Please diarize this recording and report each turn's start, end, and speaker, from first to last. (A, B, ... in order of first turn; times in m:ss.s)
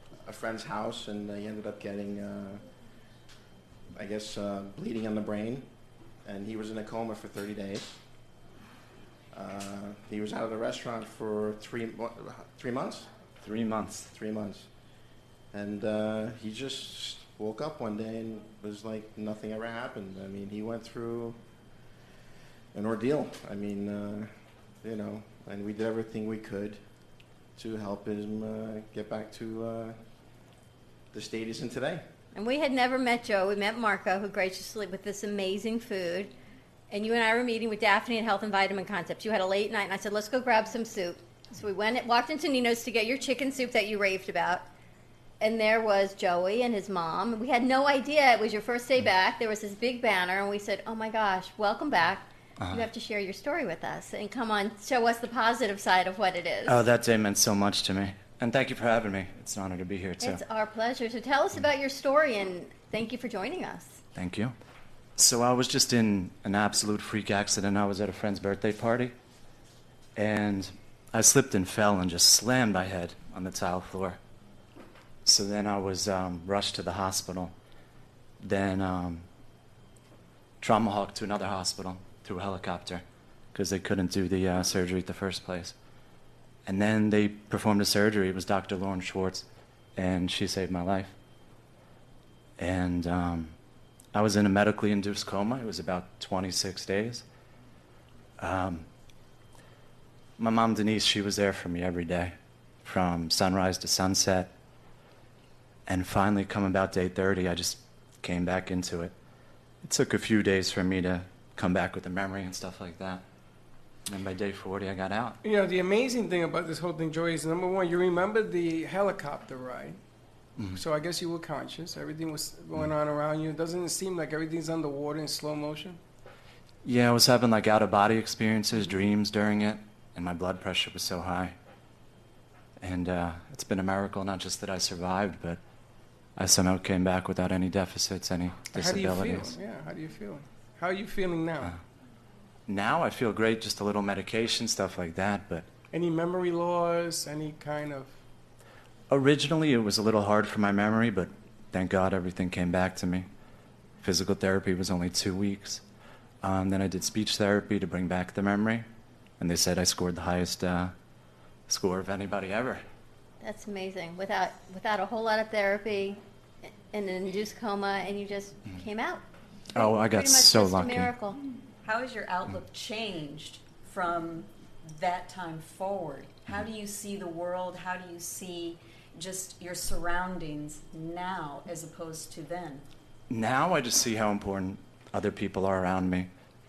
0:00.2-0:02.6 A
0:03.9-0:05.6 A
0:06.2-0:08.0 A
0:09.3-0:13.1 A
0:13.4-0:14.1 B
0:14.1-0:14.7 A
0:15.5-0:21.4 A
0:22.7-0:24.3 A
0:24.8-0:26.8 A
0:27.6-0:30.0 A
0:31.1-0:32.0 A
0:32.4-0:36.3 C
0:36.9-0:44.6 C
0:45.4-0:56.8 C
0:52.6-0:52.9 B
0:56.7-1:00.4 B
1:00.2-1:04.0 C
1:04.2-1:04.5 B
1:05.2-1:09.1 B
1:10.2-1:14.2 B
1:15.2-1:17.5 B
1:18.4-1:19.2 B
1:20.6-1:23.0 B
1:23.5-1:25.8 B
1:26.6-1:31.2 B
1:32.6-1:33.6 B
1:34.1-1:37.2 B
1:38.4-1:38.9 B
1:40.4-1:44.5 B
1:45.9-1:49.1 B
1:49.8-1:53.2 B
1:54.1-1:55.4 B
1:55.4-2:00.0 D
2:00.8-2:06.0 D
2:06.8-2:11.6 B
2:12.8-2:15.6 B
2:16.4-2:19.5 B
2:18.7-2:21.7 D
2:22.7-2:25.7 B
2:25.9-2:28.1 D
2:29.1-2:33.3 B
2:34.0-2:35.8 B
2:36.4-2:38.8 B
2:39.4-2:40.9 B
2:41.7-2:42.8 B
2:43.4-2:46.2 C
2:46.9-2:49.2 C
2:49.8-2:51.1 B
2:49.8-2:51.4 C
2:51.8-3:02.8 E
3:03.3-3:06.3 B